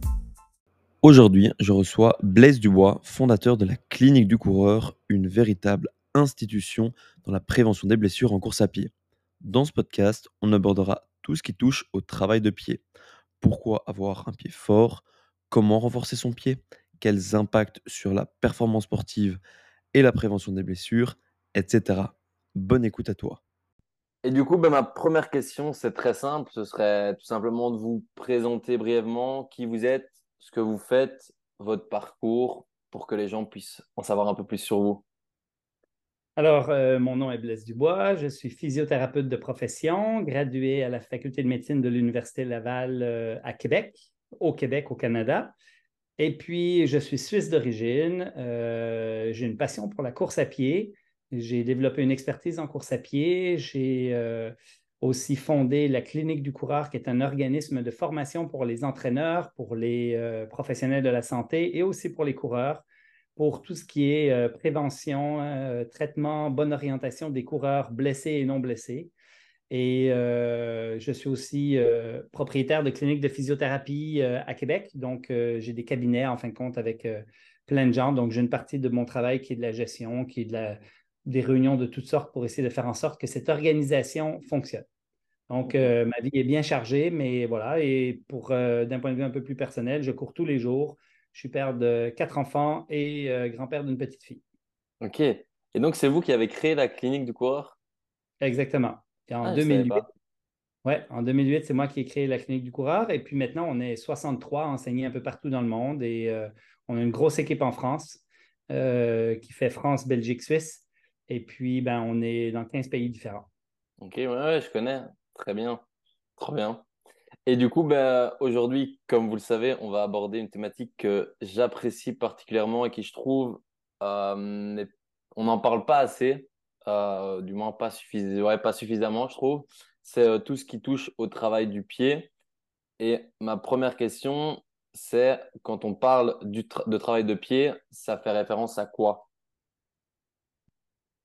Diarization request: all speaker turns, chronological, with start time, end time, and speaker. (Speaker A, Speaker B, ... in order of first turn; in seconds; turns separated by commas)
Speaker A: 1.0-12.8, Speaker A: 13.4-19.4, Speaker A: 19.9-23.4, Speaker B: 24.2-35.0, Speaker C: 36.4-45.5, Speaker C: 46.2-62.8, Speaker C: 63.4-69.1, Speaker C: 69.7-84.8, Speaker C: 85.5-94.4, Speaker B: 85.7-85.9, Speaker B: 95.0-97.8, Speaker C: 98.4-100.0, Speaker B: 99.4-100.0, Speaker C: 100.8-113.5, Speaker B: 114.0-115.8, Speaker B: 116.4-116.8, Speaker B: 117.5-132.3, Speaker B: 133.0-139.3